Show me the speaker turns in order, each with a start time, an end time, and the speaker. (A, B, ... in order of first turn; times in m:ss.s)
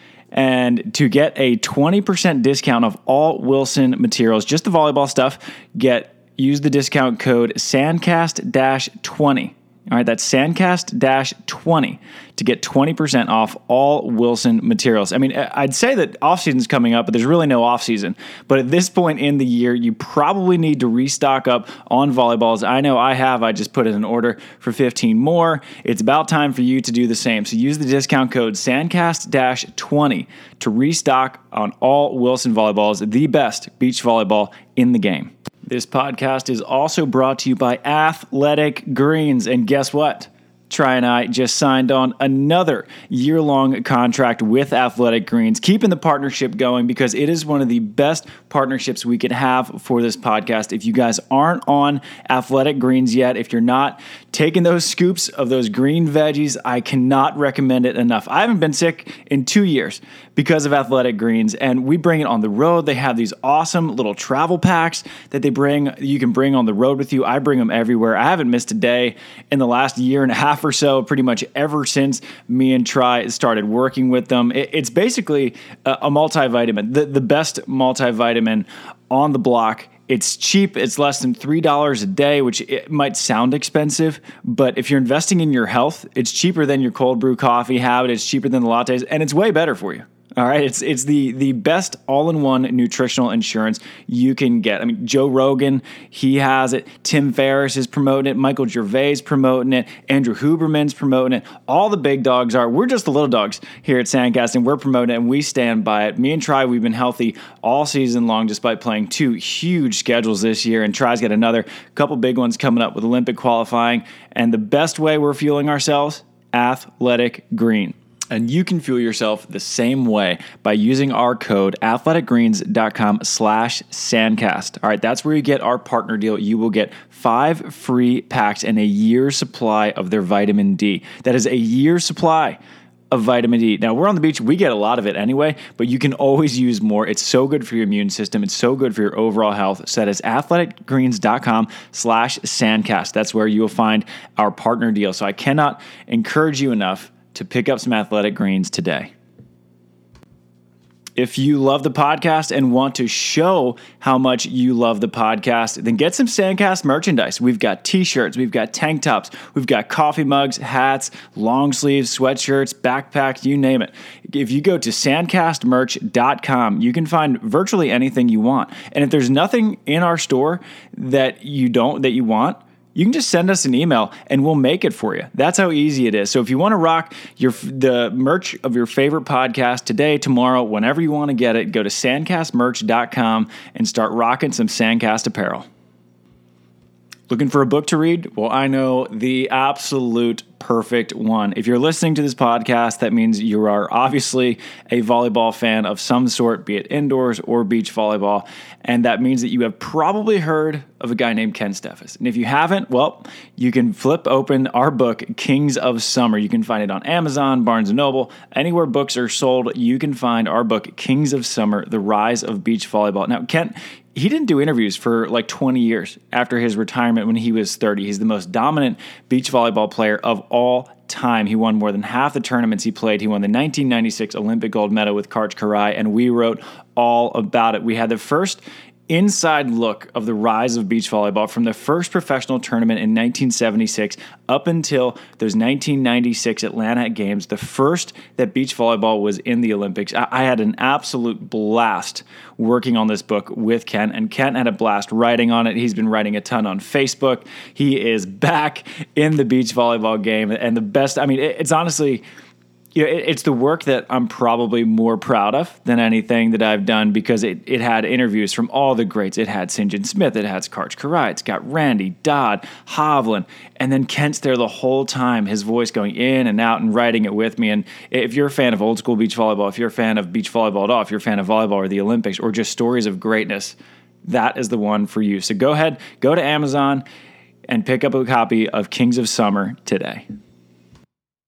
0:00.3-2:12.6 A
2:13.1-2:29.1 A
2:31.2-3:05.7 A
3:07.3-4:12.2 A
4:12.9-4:37.0 A
4:37.7-4:40.3 A